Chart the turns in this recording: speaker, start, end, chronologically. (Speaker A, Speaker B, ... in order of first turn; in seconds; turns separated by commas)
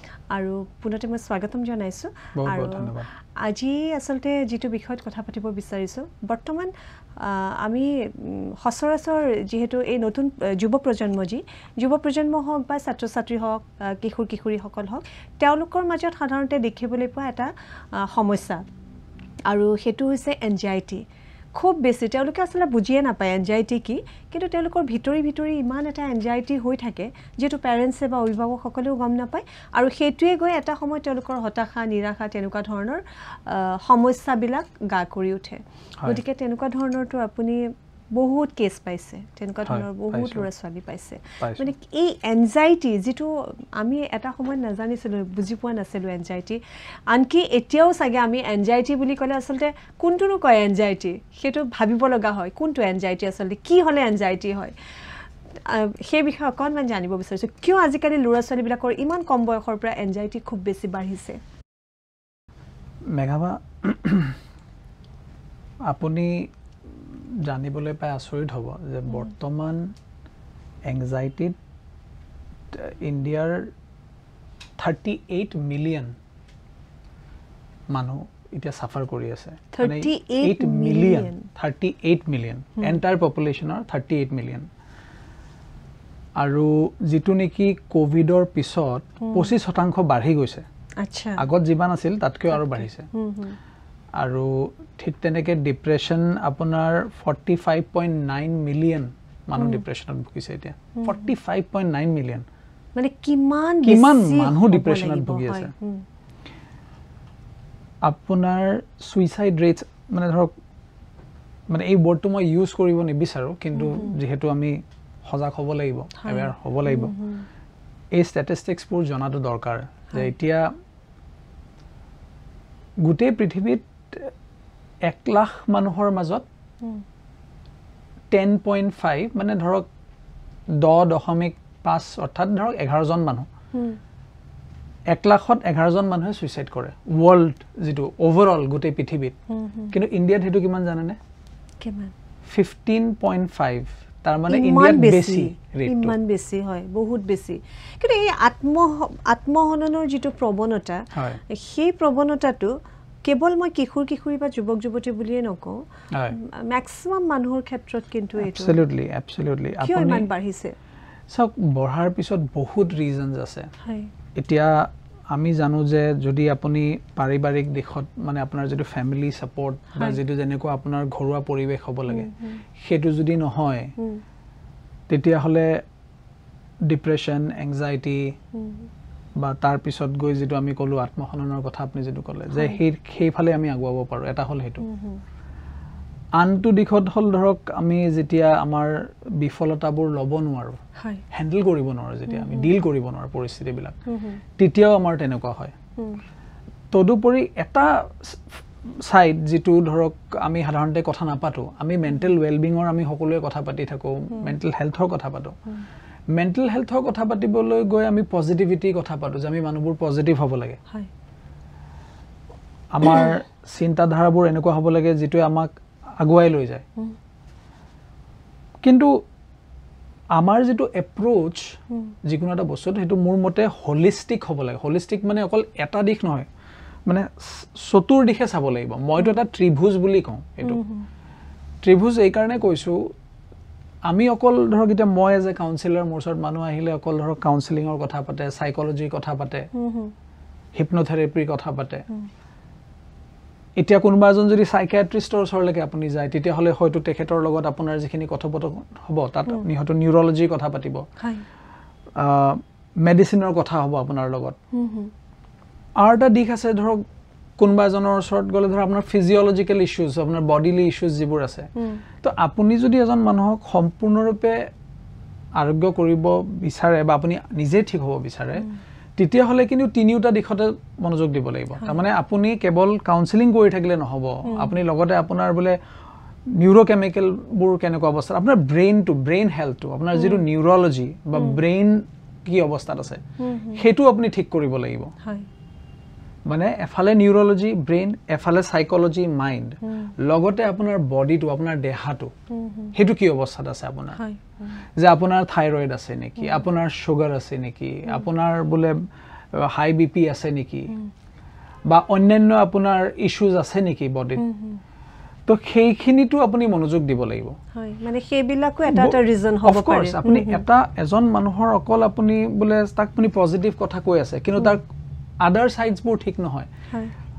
Speaker A: 0.3-18.6, Speaker B: 2.4-3.1, Speaker A: 19.5-21.0, Speaker A: 21.5-54.7, Speaker B: 39.6-40.5, Speaker B: 41.4-41.7, Speaker A: 55.6-61.4, Speaker B: 63.1-64.4, Speaker B: 65.9-69.9, Speaker B: 70.9-71.5, Speaker B: 72.7-73.7, Speaker B: 74.8-76.1, Speaker B: 77.9-84.7, Speaker A: 79.7-81.5, Speaker B: 86.4-90.7, Speaker A: 89.2-89.5, Speaker A: 91.0-91.4, Speaker B: 91.4-93.1, Speaker A: 92.5-93.6, Speaker B: 94.2-102.4, Speaker A: 99.6-99.8, Speaker A: 101.0-101.3, Speaker A: 103.0-106.0, Speaker B: 103.8-105.7, Speaker B: 108.0-110.5, Speaker B: 111.7-117.1, Speaker A: 113.8-114.1, Speaker A: 116.2-117.5, Speaker B: 118.1-120.7, Speaker B: 123.0-124.3, Speaker B: 125.0-126.5, Speaker B: 128.3-129.9, Speaker B: 130.8-133.5, Speaker B: 135.1-139.3, Speaker A: 139.5-139.9, Speaker B: 139.9-141.2, Speaker A: 141.8-142.1, Speaker B: 142.5-146.1, Speaker A: 144.5-152.7, Speaker B: 151.1-151.4, Speaker A: 153.2-155.8, Speaker A: 156.3-158.8, Speaker B: 158.4-160.2, Speaker A: 159.8-160.7, Speaker B: 161.3-163.7, Speaker A: 163.8-164.1, Speaker B: 164.4-164.8, Speaker B: 165.3-173.9, Speaker A: 169.9-170.2, Speaker A: 172.1-172.6, Speaker B: 175.1-175.7, Speaker B: 176.9-178.3, Speaker A: 178.5-178.9, Speaker B: 179.4-184.8, Speaker A: 184.8-185.2, Speaker B: 186.4-190.8, Speaker A: 191.0-191.2, Speaker B: 191.3-193.9, Speaker A: 192.3-192.7, Speaker A: 194.1-194.4, Speaker B: 194.6-195.7, Speaker B: 196.9-198.4, Speaker B: 199.1-205.6, Speaker B: 206.3-210.8, Speaker B: 212.9-216.8, Speaker B: 218.8-219.2, Speaker B: 220.4-221.7, Speaker B: 222.2-226.5, Speaker B: 227.1-230.8, Speaker A: 230.6-231.1, Speaker B: 231.8-233.1, Speaker B: 234.1-239.7, Speaker A: 239.7-240.1, Speaker B: 240.7-242.0, Speaker B: 243.8-251.0, Speaker A: 251.2-251.4, Speaker B: 252.2-254.6, Speaker A: 254.7-255.1, Speaker B: 256.0-257.0, Speaker B: 257.6-261.7, Speaker A: 261.8-262.0, Speaker B: 262.2-264.6, Speaker B: 265.6-275.8, Speaker A: 274.4-274.8, Speaker B: 276.6-283.2, Speaker A: 280.1-280.4, Speaker A: 281.4-281.6, Speaker A: 283.4-283.8, Speaker B: 283.7-285.1, Speaker B: 286.5-292.3, Speaker A: 289.9-290.1, Speaker A: 292.5-292.9, Speaker B: 292.9-294.2, Speaker A: 294.1-294.7, Speaker B: 295.0-298.9, Speaker B: 299.5-300.9, Speaker B: 301.9-304.4, Speaker A: 304.4-304.8, Speaker B: 305.5-307.5, Speaker A: 307.7-310.6, Speaker B: 308.9-314.8, Speaker B: 315.4-316.7